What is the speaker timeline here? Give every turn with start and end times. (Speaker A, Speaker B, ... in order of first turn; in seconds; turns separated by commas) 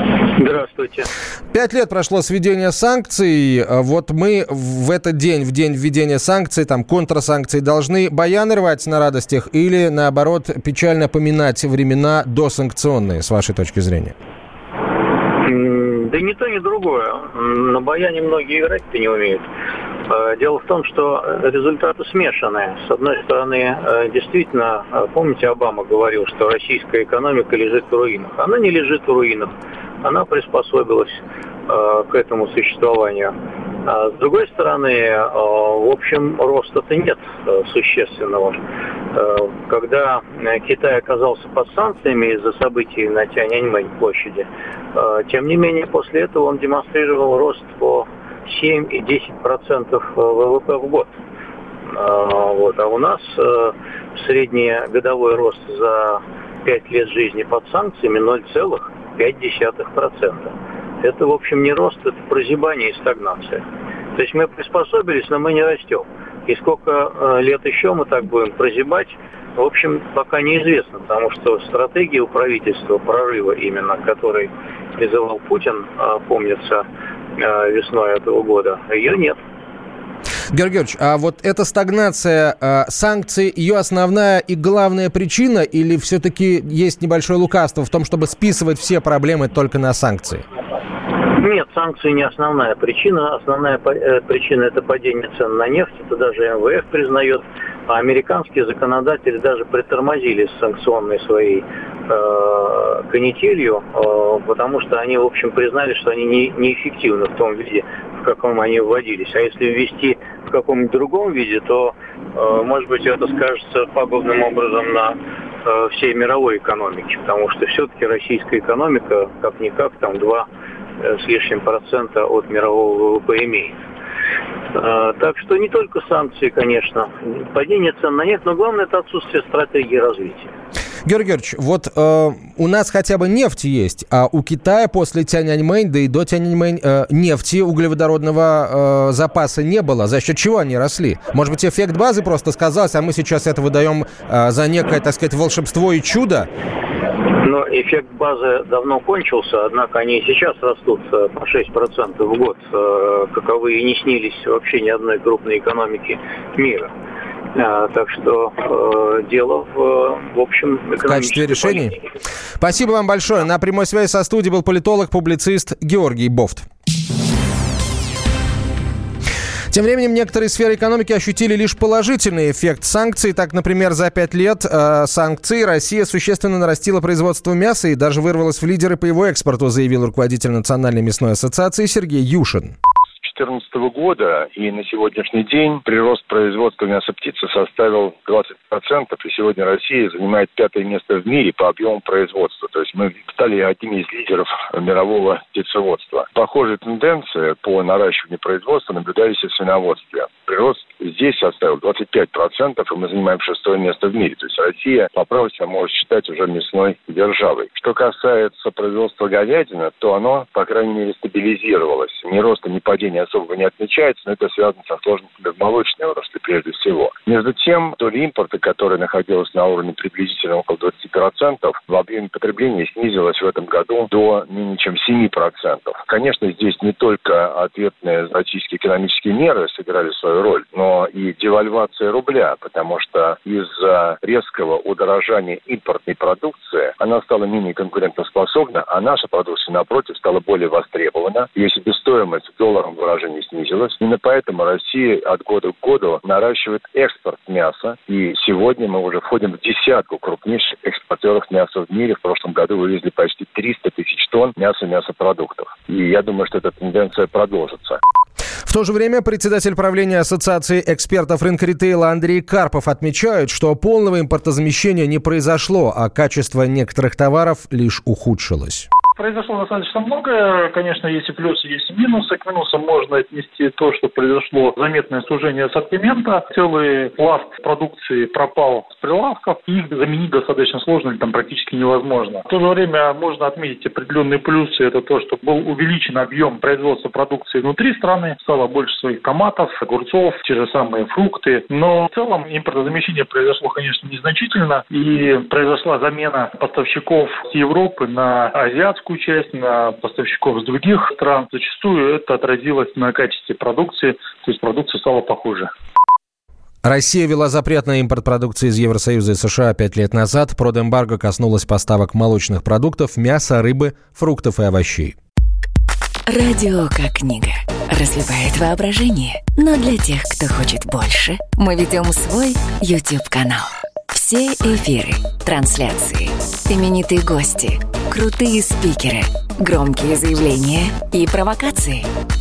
Speaker A: 0.3-1.1, Speaker B: 1.5-14.1, Speaker A: 15.4-19.4, Speaker A: 20.1-33.3, Speaker A: 33.8-38.6, Speaker A: 39.1-51.1, Speaker A: 51.9-63.6, Speaker A: 64.1-76.8, Speaker A: 77.3-79.4, Speaker B: 80.5-90.4, Speaker A: 91.3-120.5, Speaker A: 121.0-123.7, Speaker A: 124.7-130.5, Speaker B: 131.1-146.5, Speaker A: 147.4-156.9, Speaker A: 157.5-161.9, Speaker B: 161.1-161.9, Speaker B: 162.6-166.7, Speaker B: 169.7-182.7, Speaker C: 183.2-258.0, Speaker B: 258.6-268.9, Speaker D: 269.1-305.7, Speaker B: 306.8-315.1, Speaker E: 316.3-332.1